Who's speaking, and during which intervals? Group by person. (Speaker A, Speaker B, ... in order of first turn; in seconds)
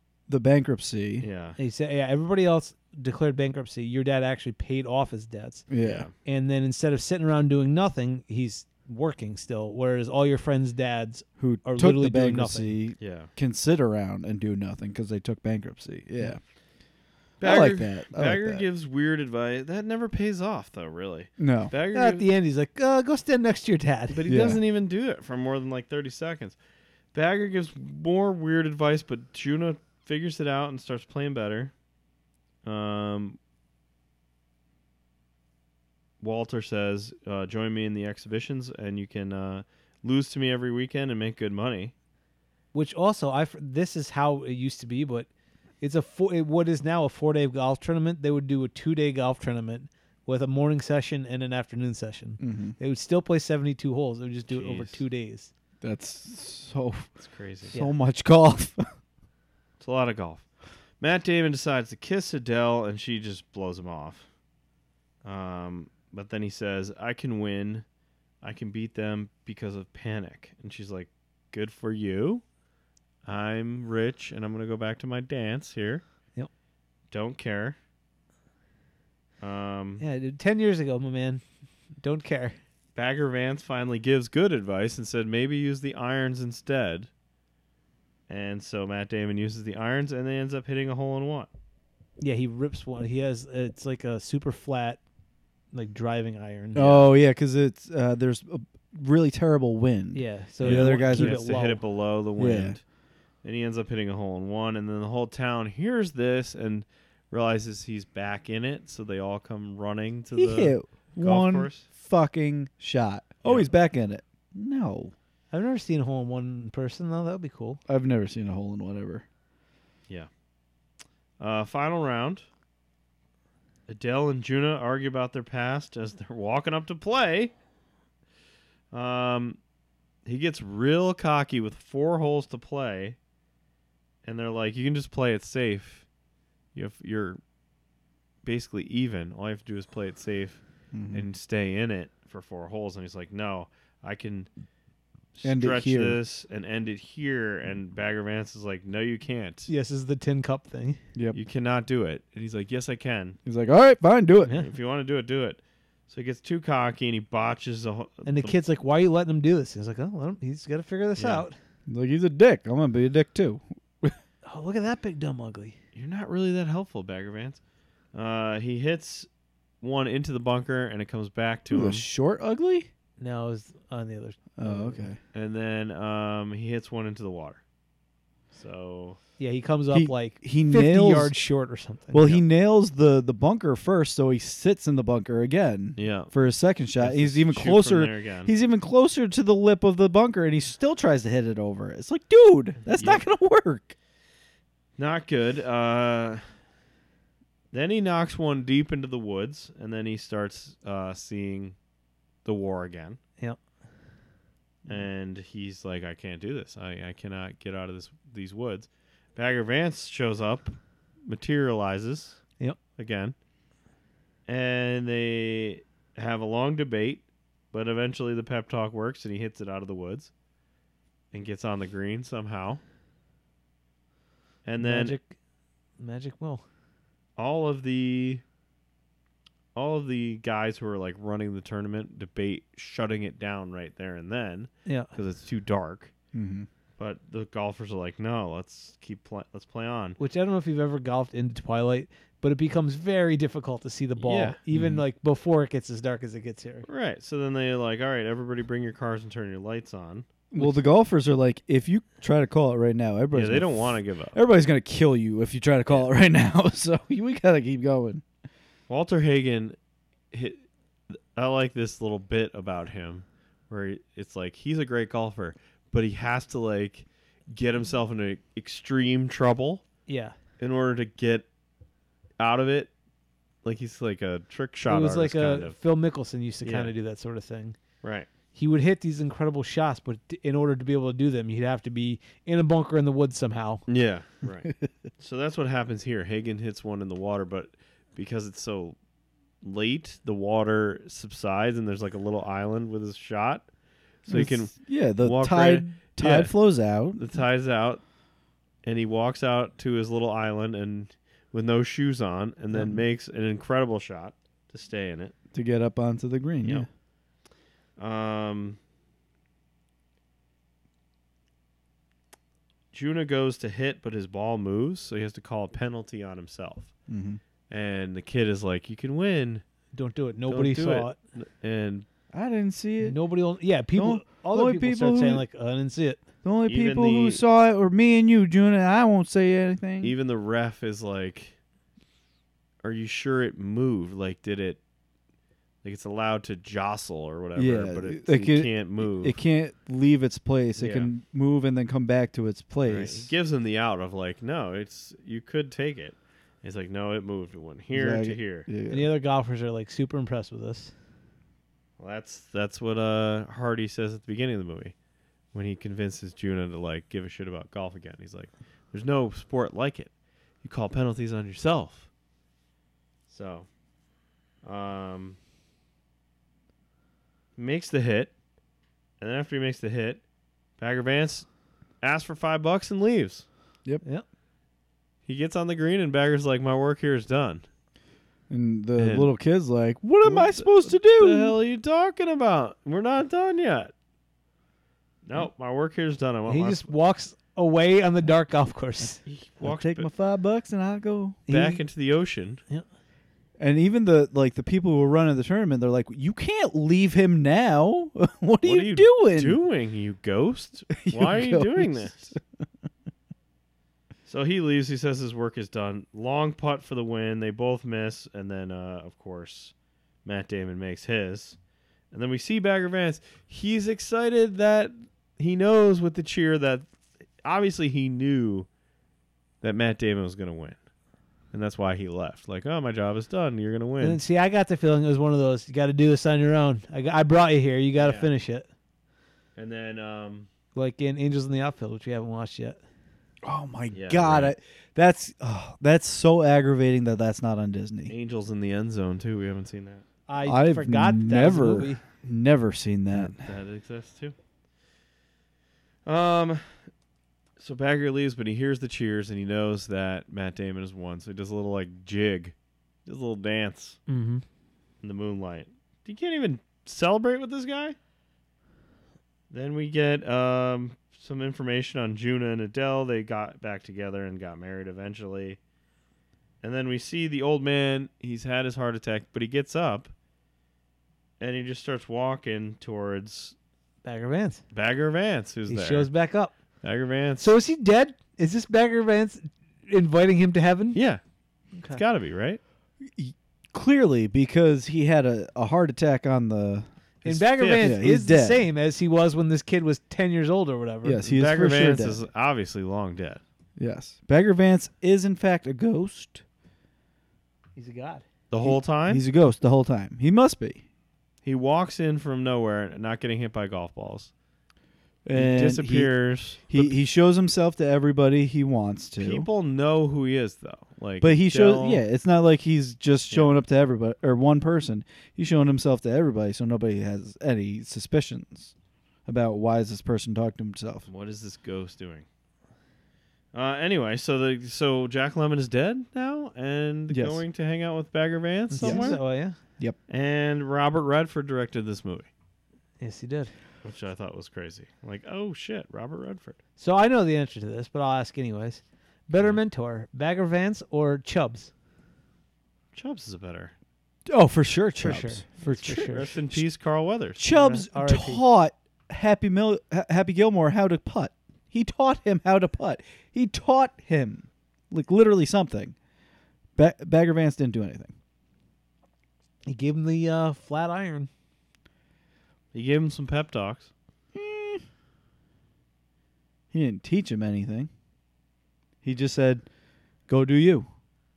Speaker A: 0.3-1.3, 5.7-6.1, 11.4-16.4, 17.4-18.6, 21.4-21.7, 24.3-24.6, 52.4-52.8, 55.8-57.1, 57.7-58.9, 96.8-101.4, 102.4-102.8, 110.3-115.1, 117.9-119.2, 140.9-141.3, 145.4-146.2, 153.4-154.5, 161.9-164.2, 171.7-172.9, 174.6-175.2, 179.9-181.3, 182.1-193.9, 236.3-236.7, 244.7-245.1, 250.5-258.2, 294.3-297.2, 305.5-306.9, 317.1-317.4, 322.3-323.2, 324.0-325.4, 326.4-330.2, 337.6-343.3, 347.9-349.1, 378.5-381.6, 389.6-391.4, 393.6-399.6, 401.0-402.4, 433.4-438.1, 440.4-443.5, 483.1-486.9, 487.8-488.6, 491.0-492.2, 493.8-496.4, 498.6-500.8, 505.2-506.1, 506.7-509.5, 511.2-518.7, 519.3-521.1, 527.1-527.4, 528.8-529.2, 544.3-546.6, 547.4-556.0, 556.8-558.1, 564.3-564.8, 566.7-567.9, 569.0-569.7, 570.3-570.9
Speaker B: 1.2-1.6, 5.8-6.1, 13.0-13.3, 17.4-22.3, 24.1-26.6, 27.1-31.7, 32.6-33.4, 36.2-41.9, 54.5-55.0, 57.2-57.8, 59.8-60.5, 61.0-64.3, 65.2-67.8, 68.4-72.4, 73.2-76.0, 77.1-77.8, 79.4-80.0, 83.0-87.1, 88.3-91.5, 96.8-97.1, 100.6-102.8, 103.4-111.9, 113.4-113.7, 121.4-122.5, 123.9-127.5, 128.9-129.6, 130.3-133.2, 134.2-136.1, 136.8-137.4, 138.4-144.5, 145.3-149.7, 151.3-153.4, 154.5-158.6, 161.2-161.5, 165.9-167.6, 168.1-169.3, 169.8-172.1, 175.3-177.6, 178.5-179.2, 186.0-186.3, 187.0-188.5, 192.9-193.2, 195.0-196.4, 197.7-201.8, 202.4-203.2, 204.9-212.4, 213.0-213.3, 214.5-220.3, 221.3-222.8, 224.7-225.2, 227.4-228.4, 229.8-236.1, 237.0-240.2, 244.2-244.6, 246.9-250.3, 253.3-254.4, 258.9-259.8, 260.3-269.9, 270.6-271.5, 272.4-272.9, 273.6-275.8, 276.6-276.9, 278.0-278.3, 283.9-289.0, 289.6-293.7, 294.2-298.0, 298.8-305.3, 308.0-308.8, 312.9-316.9, 317.7-319.6, 320.5-322.1, 326.7-327.4, 330.0-331.6, 332.8-334.8, 335.8-339.4, 340.8-341.1, 342.9-348.7, 352.0-354.9, 355.5-360.1, 360.6-362.1, 363.3-363.7, 364.6-365.4, 367.6-368.3, 369.2-370.2, 370.8-371.5, 372.0-373.4, 375.3-377.6, 379.0-379.3, 380.2-383.9, 385.2-386.9, 389.3-390.1, 391.5-392.6, 398.6-402.3, 404.3-411.6, 412.1-416.9, 417.4-418.7, 419.6-420.8, 421.5-424.2, 428.0-428.3, 429.6-430.5, 433.9-434.6, 438.1-440.0, 443.1-444.4, 446.1-446.9, 447.6-452.6, 453.1-454.0, 455.0-458.0, 459.5-465.6, 466.6-470.1, 471.4-473.6, 474.7-476.1, 476.8-477.5, 480.9-481.2, 481.9-482.6, 487.2-488.0, 491.2-493.4, 498.5-499.2, 501.4-504.3, 505.3-506.9, 509.2-512.0, 513.3-513.6, 521.1-522.3, 523.5-529.2, 530.1-532.3, 533.8-536.6, 542.9-543.7, 545.9-547.4, 562.7-563.9
Speaker C: 1.6-5.7, 6.2-12.8, 21.9-24.2, 42.7-45.3, 45.8-55.5, 80.0-81.4, 82.0-82.6, 92.2-95.0, 95.7-96.8, 100.1-101.8, 115.5-117.8, 149.7-151.0, 158.2-161.6, 164.4-165.8, 173.2-175.1, 179.4-182.4, 224.8-225.3, 226.0-226.7, 234.8-235.1, 240.2-246.9, 270.1-270.4, 274.9-277.8, 278.6-283.9, 319.9-321.2, 323.0-326.2, 348.9-350.9, 386.5-389.2, 391.5-391.8, 424.0-428.7, 430.8-432.8, 440.3-442.0, 454.1-454.4, 474.0-474.6, 475.7-476.6, 477.4-481.0, 481.7-482.0, 487.2-491.2, 497.8-498.2, 528.7-529.6, 533.0-533.5, 536.8-541.7, 545.0-546.3, 547.5-548.4, 559.7-561.3